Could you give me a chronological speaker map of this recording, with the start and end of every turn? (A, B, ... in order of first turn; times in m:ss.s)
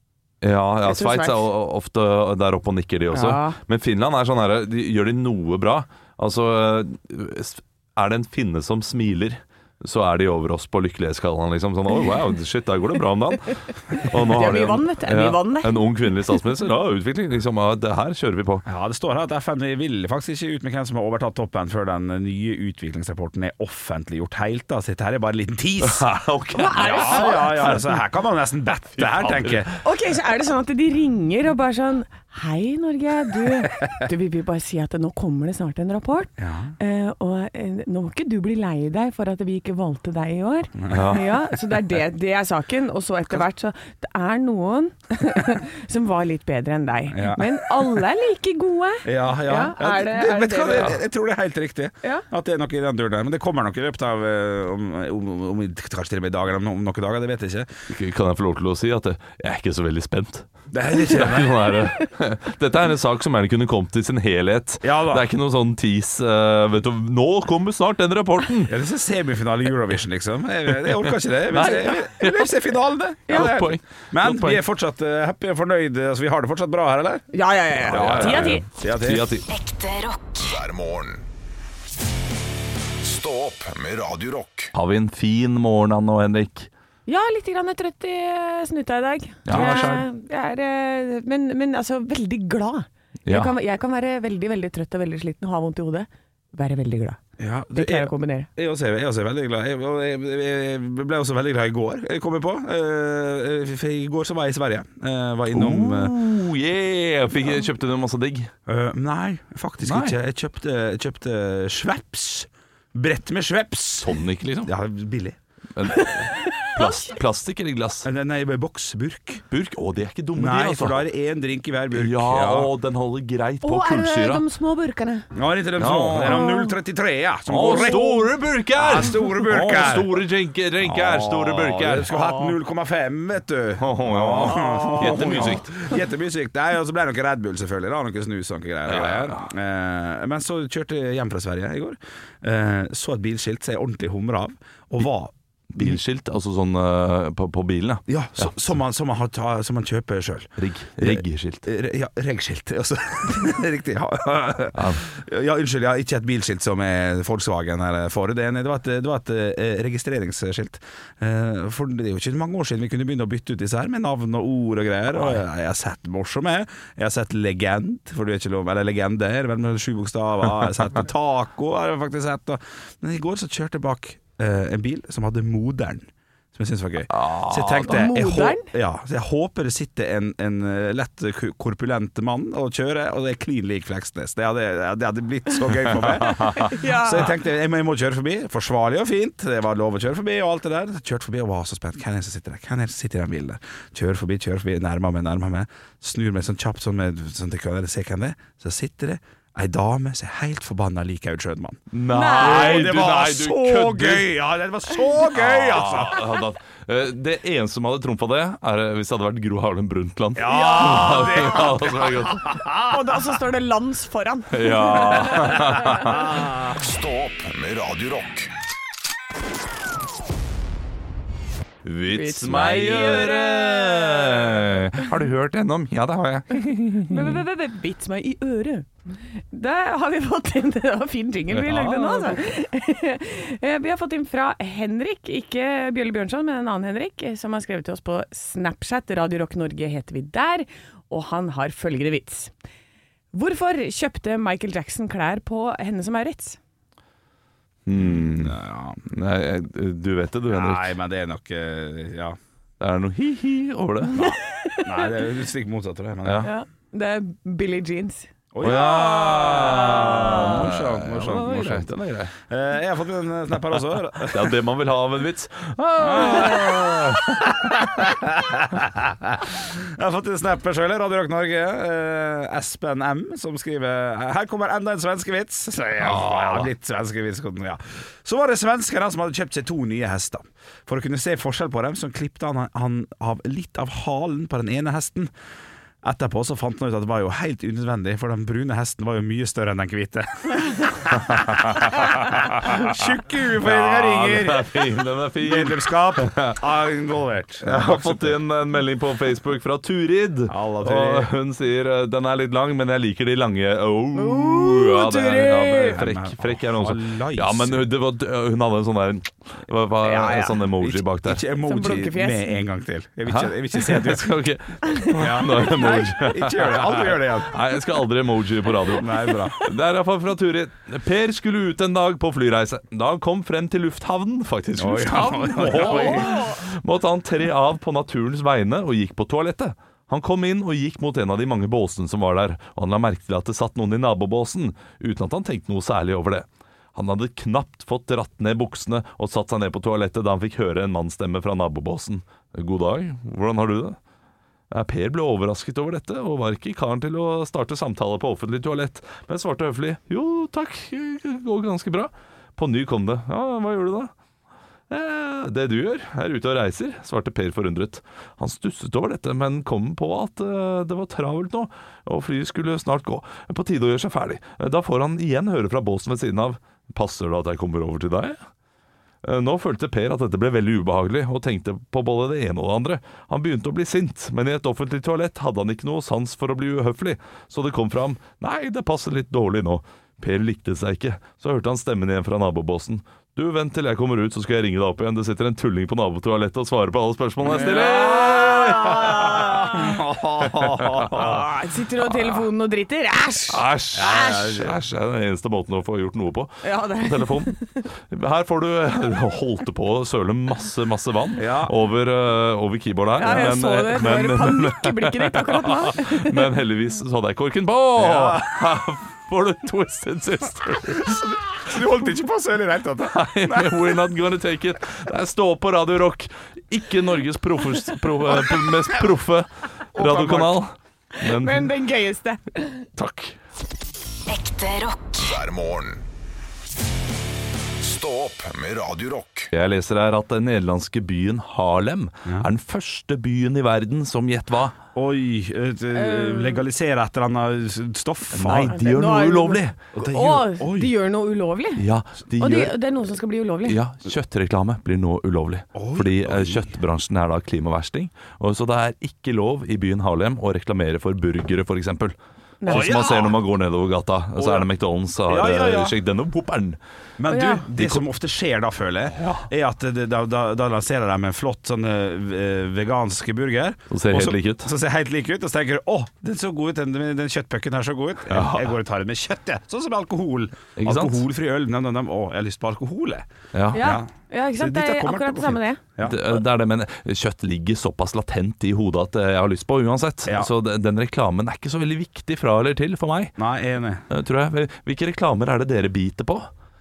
0:00.4-0:18.6 A
0:00.8-0:01.4 B
0:03.1-0:03.6 B
0:14.0-0:15.8 B
0:18.6-0:26.0 C
0:25.8-0:27.8 A
0:26.5-0:27.8 B
0:26.7-0:29.7 C
0:29.0-0:29.6 A
0:29.8-0:51.0 B
0:36.4-0:36.7 C
0:40.8-0:41.1 C
0:40.9-0:41.3 A
0:47.1-0:47.9 C
0:49.0-0:57.7 C
0:57.9-1:08.8 A
1:00.7-1:01.6 C
1:04.8-1:05.3 C
1:08.7-1:17.2 C
1:11.0-1:12.5 A
1:13.3-1:14.6 A
1:17.3-1:18.6 B
1:17.8-1:19.3 C
1:17.9-1:19.4 A
1:19.5-1:20.6 D
1:20.4-1:21.2 E
1:23.0-1:24.7 E
1:24.7-1:26.7 A
1:27.1-1:37.2 B
1:29.5-1:30.0 A
1:29.5-1:29.9 C
1:33.2-1:33.5 A
1:37.4-1:46.2 C
1:37.7-1:38.5 B
1:45.5-1:48.5 A
1:48.7-1:55.4 C
1:49.8-1:50.2 A
1:54.0-1:54.7 A
1:55.7-1:58.1 A
1:56.0-1:57.1 B
1:58.0-1:59.4 C
1:59.5-2:01.0 A
2:00.3-2:02.7 C
2:01.9-2:04.4 A
2:03.6-2:05.3 B
2:05.3-2:08.1 C
2:05.8-2:06.5 A
2:06.3-2:06.7 B
2:07.5-2:12.1 A
2:07.7-2:08.3 B
2:08.8-2:10.2 C
2:10.8-2:26.0 C
2:12.1-2:12.5 B
2:13.8-2:15.8 A
2:14.5-2:15.5 B
2:18.9-2:19.4 A
2:25.7-2:28.5 A
2:28.1-3:26.3 C
2:30.6-2:31.6 A
2:34.7-2:35.0 A
2:57.1-2:58.1 A
2:57.8-2:58.7 B
3:05.9-3:06.7 A
3:06.5-3:07.3 B
3:21.9-3:24.3 A
3:22.1-3:22.9 B
3:25.3-3:32.6 A
3:30.4-3:33.2 C
3:30.5-3:31.6 B
3:32.9-3:36.2 B
3:34.5-3:36.3 A
3:35.9-3:36.6 C
3:36.3-3:38.5 E
3:41.8-3:47.4 A
3:42.1-3:44.5 B
3:47.0-4:02.5 B
3:51.5-3:52.4 A
4:03.3-4:06.6 B
4:07.8-4:10.9 A
4:07.9-4:09.0 C
4:10.5-4:12.4 C
4:12.8-4:14.2 A
4:14.1-4:16.5 C
4:14.2-4:15.1 B
4:16.2-4:16.5 A
4:16.4-4:18.3 B
4:18.5-4:21.9 C
4:18.6-4:22.3 A
4:20.0-4:20.3 B
4:22.5-4:24.6 C
4:24.2-4:27.4 A
4:26.0-4:45.3 C
4:36.0-4:36.7 A
4:46.0-4:58.4 C
4:53.6-4:56.6 A
4:57.6-5:11.4 A
5:00.5-5:01.3 C
5:04.1-5:06.0 B
5:05.9-5:07.8 C
5:10.0-5:10.6 B
5:10.8-5:14.3 C
5:11.6-5:12.6 B
5:13.3-5:44.0 A
5:15.1-5:17.6 C
5:18.9-5:19.6 C
5:24.8-5:26.4 C
5:25.7-5:26.6 B
5:44.7-5:54.1 A
5:54.9-6:08.4 A
6:09.2-6:29.8 A
6:27.4-6:31.4 C
6:27.6-6:29.8 B
6:30.5-6:31.2 A
6:31.1-6:34.3 B
6:32.1-6:32.4 A
6:33.5-6:51.2 A
6:33.9-6:34.8 C
6:36.6-6:37.8 B
6:41.4-6:41.7 C
6:43.2-6:46.5 B
6:48.0-6:48.5 C
6:50.9-6:53.9 C
6:53.0-7:01.7 A
6:59.9-7:00.6 C
7:01.2-7:02.9 B
7:03.0-7:03.4 A
7:04.3-7:05.2 D
7:05.2-7:06.0 E
7:07.8-7:09.5 E
7:09.5-7:14.7 A
7:14.9-7:18.8 C
7:15.9-7:16.6 B
7:18.3-7:19.8 A
7:18.7-7:21.8 B
7:19.9-7:20.9 C
7:21.8-7:22.8 A
7:22.4-7:23.8 B
7:23.6-7:36.8 A
7:25.7-7:26.7 C
7:32.6-7:32.9 B
7:32.7-7:33.4 C
7:34.4-7:34.7 C
7:35.3-7:35.9 C
7:37.2-7:56.2 C
7:37.3-7:37.6 B
7:37.8-7:38.0 A
7:39.2-7:39.4 A
7:43.9-7:44.7 A
7:48.3-7:48.7 A
7:50.8-7:51.2 A
7:53.5-7:53.9 A
7:53.7-7:55.8 B
7:56.0-8:03.3 A
8:00.2-8:00.5 C
8:03.4-8:04.0 C
8:04.1-8:06.5 A